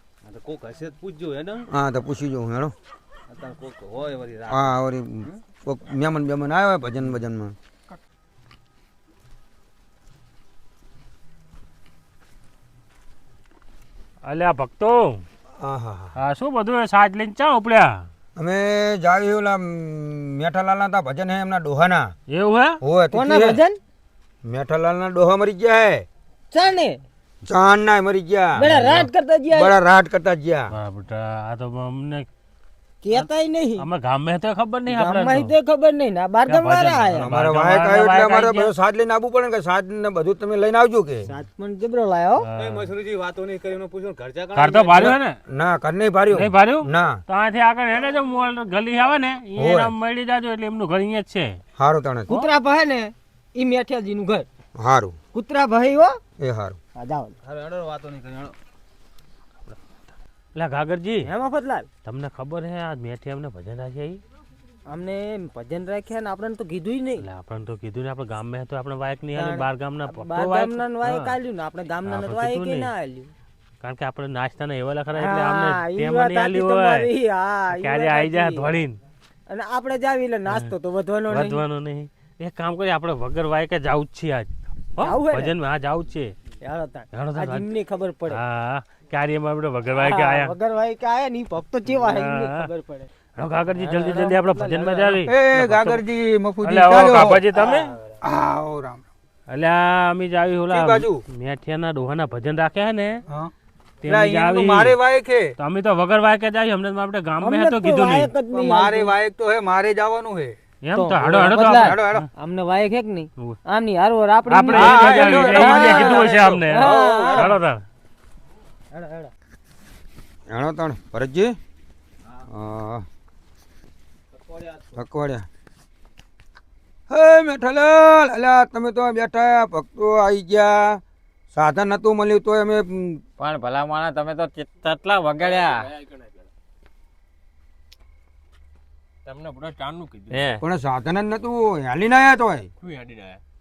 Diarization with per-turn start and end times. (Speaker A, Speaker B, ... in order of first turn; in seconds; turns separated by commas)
Speaker A: 0.2-1.6, Speaker B: 1.7-2.7, Speaker A: 3.3-5.4, Speaker B: 4.5-7.5, Speaker C: 14.2-15.2, Speaker B: 15.6-16.1, Speaker C: 16.1-18.1, Speaker B: 18.4-22.1, Speaker C: 22.3-22.8, Speaker B: 22.8-23.6, Speaker D: 23.1-23.8, Speaker B: 24.4-26.1, Speaker D: 26.5-27.0, Speaker B: 27.4-28.7, Speaker D: 28.6-29.8, Speaker C: 28.8-29.0, Speaker B: 29.5-30.7, Speaker C: 30.7-32.3, Speaker D: 33.0-33.9, Speaker C: 33.8-35.5, Speaker D: 34.9-37.3, Speaker C: 36.5-38.7, Speaker B: 37.1-41.3, Speaker D: 41.3-42.5, Speaker C: 42.4-42.9, Speaker A: 42.6-45.1, Speaker C: 44.5-45.4, Speaker B: 45.0-47.2, Speaker C: 46.3-51.6, Speaker B: 49.5-49.9, Speaker B: 51.8-52.3, Speaker D: 52.3-54.5, Speaker B: 54.8-55.1, Speaker D: 55.3-56.2, Speaker B: 56.4-56.8, Speaker D: 57.0-57.4, Speaker A: 57.4-58.5, Speaker C: 60.5-61.3, Speaker D: 61.2-61.9, Speaker C: 62.0-64.2, Speaker D: 64.9-67.2, Speaker C: 67.2-71.3, Speaker D: 69.3-73.3, Speaker C: 72.0-72.9, Speaker C: 73.8-77.1, Speaker D: 75.1-78.8, Speaker C: 77.7-79.0, Speaker D: 79.5-81.6, Speaker C: 81.3-86.3, Speaker D: 85.0-85.5, Speaker D: 86.6-88.4, Speaker C: 87.1-87.7, Speaker C: 88.3-90.5, Speaker D: 89.9-93.1, Speaker C: 92.0-92.6, Speaker C: 93.4-95.9, Speaker D: 93.7-95.2, Speaker B: 95.3-97.5, Speaker C: 96.6-97.9, Speaker D: 97.5-98.2, Speaker B: 98.2-99.0, Speaker C: 99.5-103.2, Speaker B: 100.7-101.2, Speaker C: 104.0-105.0, Speaker B: 104.1-105.5, Speaker C: 105.6-108.3, Speaker D: 107.4-109.1, Speaker B: 108.5-110.6, Speaker C: 110.8-112.2, Speaker D: 110.9-117.5, Speaker B: 111.2-112.2, Speaker C: 114.5-117.8, Speaker B: 114.7-117.5, Speaker D: 118.9-119.3, Speaker B: 120.5-121.6, Speaker B: 122.5-123.0, Speaker A: 124.3-125.0, Speaker B: 125.0-125.5, Speaker B: 127.1-131.0, Speaker B: 131.5-133.2, Speaker E: 133.4-135.9, Speaker F: 135.4-136.5, Speaker F: 139.2-140.5, Speaker E: 140.3-140.6, Speaker B: 140.6-142.7, Speaker F: 142.8-143.4